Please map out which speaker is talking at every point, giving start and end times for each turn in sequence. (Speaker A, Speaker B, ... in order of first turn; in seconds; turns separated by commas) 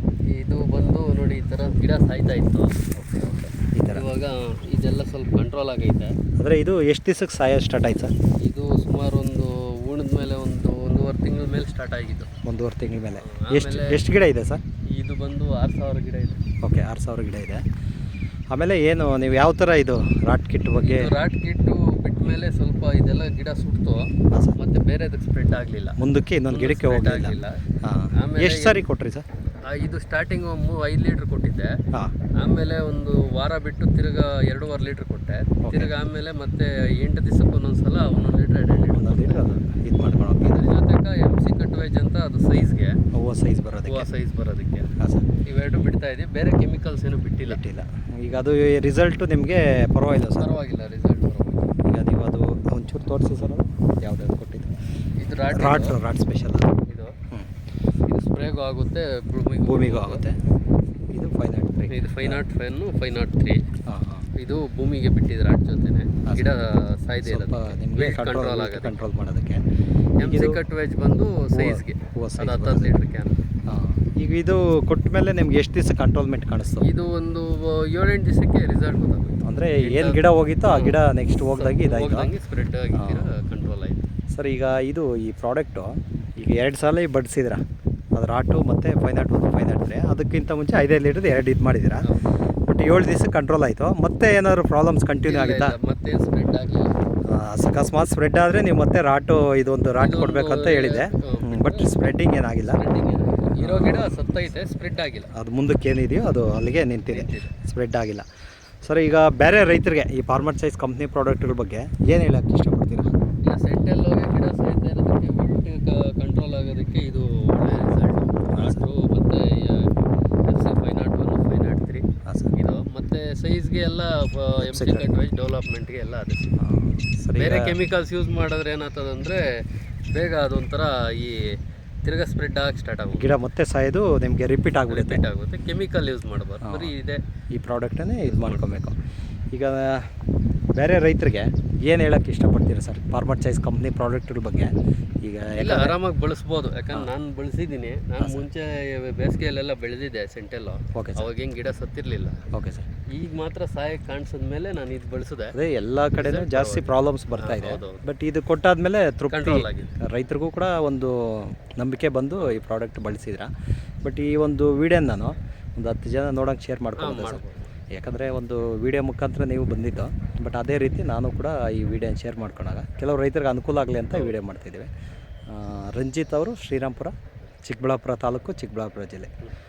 Speaker A: 0.3-6.2, Speaker B: 3.7-4.0, Speaker B: 6.4-8.1, Speaker A: 8.4-12.3, Speaker B: 12.4-14.6, Speaker A: 13.2-14.0, Speaker A: 14.9-16.4, Speaker B: 16.6-17.6, Speaker B: 18.5-21.1, Speaker A: 20.8-27.6, Speaker B: 24.3-24.6, Speaker B: 26.0-29.3, Speaker A: 28.2-28.8, Speaker A: 29.5-31.8, Speaker A: 32.4-39.6, Speaker B: 35.6-35.9, Speaker B: 38.9-40.6, Speaker A: 40.4-43.0, Speaker B: 43.1-44.1, Speaker A: 43.9-47.6, Speaker B: 45.0-45.3, Speaker B: 47.5-50.5, Speaker A: 50.4-51.7, Speaker B: 51.8-54.7, Speaker A: 55.2-56.0, Speaker B: 55.5-56.8, Speaker A: 56.9-57.1, Speaker A: 58.1-60.2, Speaker B: 59.6-60.4, Speaker B: 61.1-62.4, Speaker A: 61.9-63.7, Speaker B: 63.9-64.3, Speaker A: 64.3-69.0, Speaker B: 66.2-66.5, Speaker B: 67.2-69.7, Speaker A: 70.2-73.4, Speaker B: 70.2-70.6, Speaker B: 71.5-72.9, Speaker B: 73.7-76.9, Speaker A: 76.8-84.1, Speaker B: 79.4-82.3, Speaker B: 82.9-83.3, Speaker B: 84.3-87.6, Speaker B: 88.2-92.1, Speaker A: 92.0-92.3, Speaker B: 92.7-95.8, Speaker A: 95.2-96.9, Speaker B: 97.3-102.8, Speaker A: 100.0-102.0, Speaker A: 102.7-105.3, Speaker B: 103.6-104.5, Speaker B: 105.3-108.2, Speaker A: 107.1-107.5, Speaker B: 108.8-113.2, Speaker A: 113.4-119.9, Speaker B: 118.5-118.8, Speaker A: 120.5-126.6, Speaker B: 122.2-122.5, Speaker B: 124.6-125.1, Speaker B: 126.6-127.8, Speaker A: 127.4-133.3, Speaker B: 133.2-135.2, Speaker A: 134.9-137.2, Speaker B: 136.6-136.9, Speaker B: 137.5-139.0, Speaker A: 138.2-138.7, Speaker B: 139.5-140.1, Speaker B: 140.8-146.0, Speaker A: 145.6-152.4, Speaker B: 150.9-151.3, Speaker B: 152.5-152.9, Speaker A: 153.1-155.6, Speaker B: 155.5-163.5, Speaker A: 156.1-158.0, Speaker A: 159.3-159.9, Speaker B: 164.0-174.9, Speaker A: 167.0-167.7, Speaker B: 175.5-179.3